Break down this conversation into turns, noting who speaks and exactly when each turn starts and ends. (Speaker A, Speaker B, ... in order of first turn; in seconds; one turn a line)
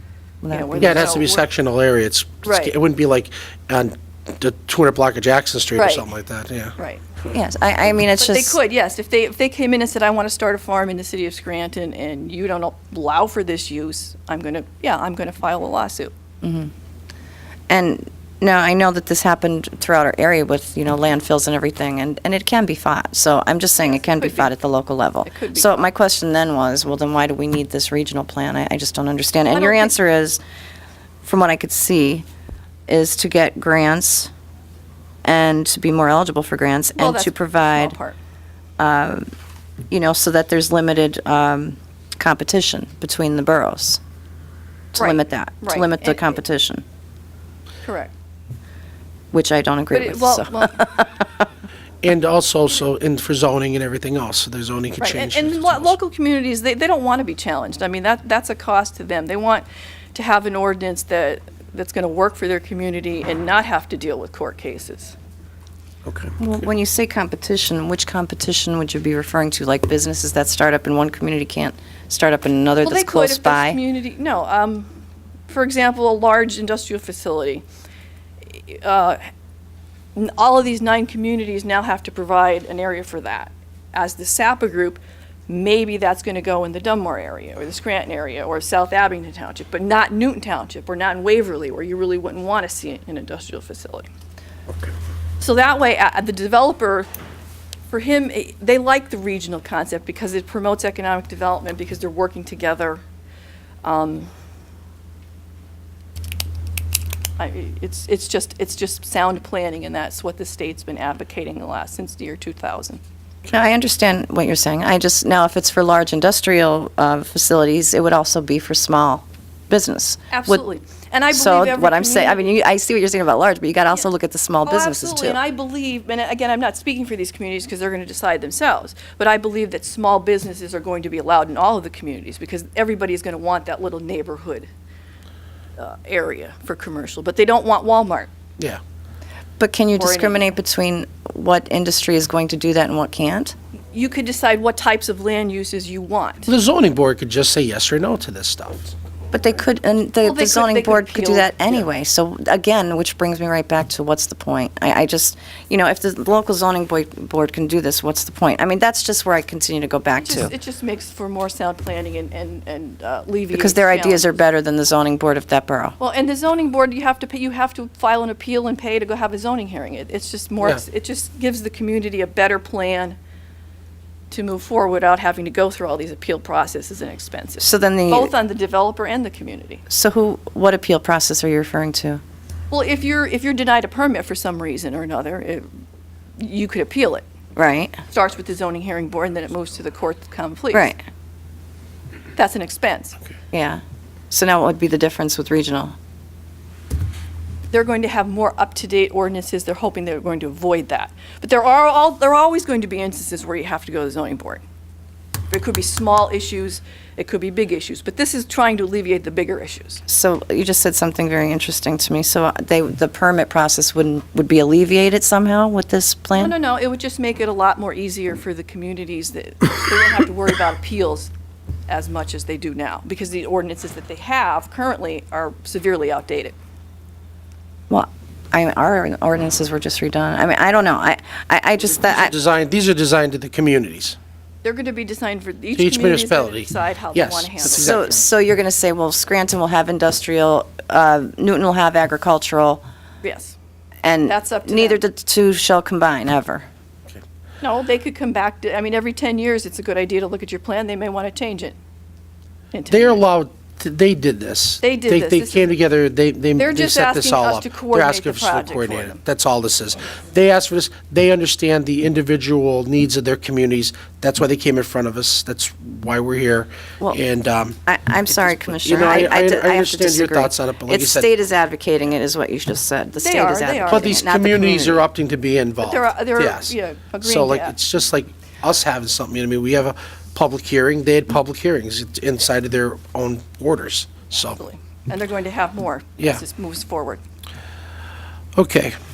Speaker A: 0.4-1.1
Speaker B: 0.5-1.4
Speaker C: 0.8-6.8
Speaker B: 2.4-2.7
Speaker B: 5.8-6.1
Speaker B: 6.8-7.0
Speaker A: 7.3-8.6
Speaker B: 8.2-16.1
Speaker A: 16.4-16.7
Speaker A: 17.7-30.4
Speaker B: 23.8-24.5
Speaker B: 25.2-25.9
Speaker B: 29.5-29.9
Speaker A: 31.2-32.2
Speaker A: 32.9-34.3
Speaker A: 35.2-38.0
Speaker B: 37.0-38.2
Speaker A: 38.8-39.3
Speaker A: 39.9-44.0
Speaker A: 44.9-46.8
Speaker B: 45.0-46.4
Speaker B: 47.8-48.1
Speaker A: 49.3-51.4
Speaker B: 49.9-50.9
Speaker C: 52.0-55.9
Speaker B: 55.0-65.2
Speaker C: 66.0-66.4
Speaker A: 66.4-73.8
Speaker B: 72.8-74.9
Speaker B: 75.5-77.7
Speaker B: 78.5-79.2
Speaker B: 80.1-94.1
Speaker B: 95.4-97.1
Speaker B: 97.9-103.0
Speaker B: 103.8-104.3
Speaker B: 107.4-113.0
Speaker A: 113.5-120.6
Speaker B: 120.3-122.5
Speaker A: 121.3-125.4
Speaker B: 124.6-134.7
Speaker B: 135.8-138.3
Speaker A: 139.6-143.5
Speaker B: 139.9-140.5
Speaker B: 143.9-146.5
Speaker C: 146.5-148.9
Speaker A: 149.3-160.5
Speaker B: 150.2-151.9
Speaker B: 160.1-164.4
Speaker A: 163.5-165.9
Speaker B: 166.0-173.2
Speaker B: 174.3-179.8
Speaker A: 177.6-178.3
Speaker A: 179.9-182.2
Speaker B: 182.7-185.7
Speaker B: 186.4-187.2
Speaker A: 187.6-188.0
Speaker B: 188.1-190.9
Speaker A: 190.7-191.0
Speaker B: 192.3-193.2
Speaker A: 193.5-195.9
Speaker B: 197.7-204.6
Speaker B: 205.5-210.0
Speaker A: 210.1-216.5
Speaker B: 216.3-221.3
Speaker B: 221.9-226.5
Speaker A: 227.9-232.3
Speaker C: 232.0-234.2
Speaker B: 234.6-238.0
Speaker C: 235.8-238.2
Speaker A: 237.7-242.8
Speaker B: 243.2-243.6
Speaker A: 244.0-246.7
Speaker B: 244.2-245.0
Speaker B: 247.6-251.8
Speaker B: 252.7-253.2
Speaker C: 252.9-267.8
Speaker B: 254.8-255.7
Speaker B: 256.6-259.2
Speaker A: 267.9-275.0
Speaker C: 268.7-271.3
Speaker B: 273.2-274.2
Speaker C: 273.9-284.6
Speaker B: 275.8-277.7
Speaker B: 284.3-287.2
Speaker C: 288.6-288.9